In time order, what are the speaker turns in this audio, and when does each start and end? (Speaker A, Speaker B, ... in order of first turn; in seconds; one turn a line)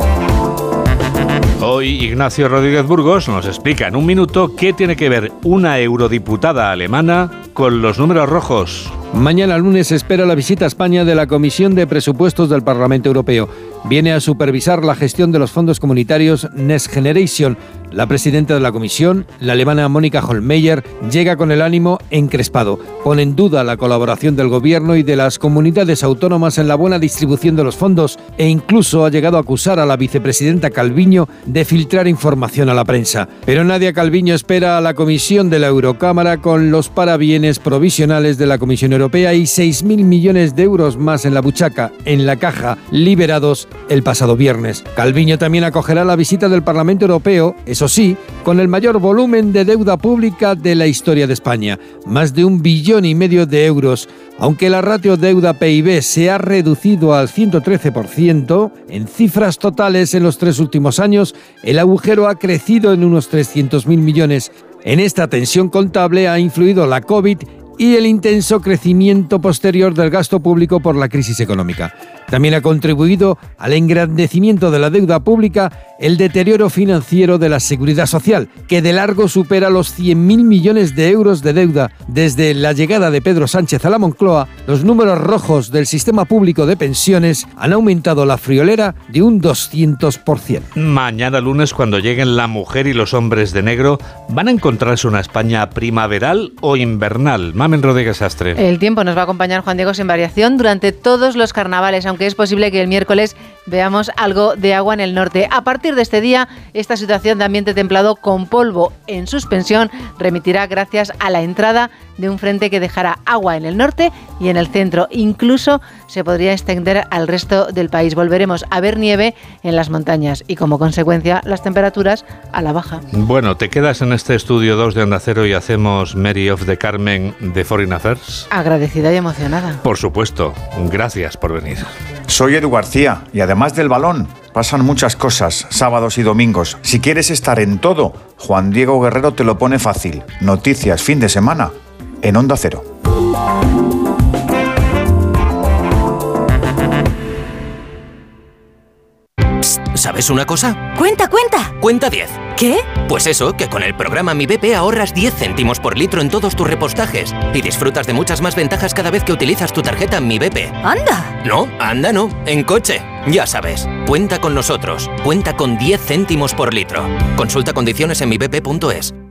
Speaker A: 1.6-8.9
Speaker B: 9.1-90.6
Speaker A: 90.8-98.6
Speaker C: 98.6-123.0
Speaker A: 123.1-128.4
Speaker C: 128.5-129.8
Speaker A: 129.8-131.9
Speaker D: 132.3-142.8
Speaker E: 149.7-150.8
Speaker E: 151.8-152.5
Speaker E: 153.0-160.8
Speaker E: 161.4-169.1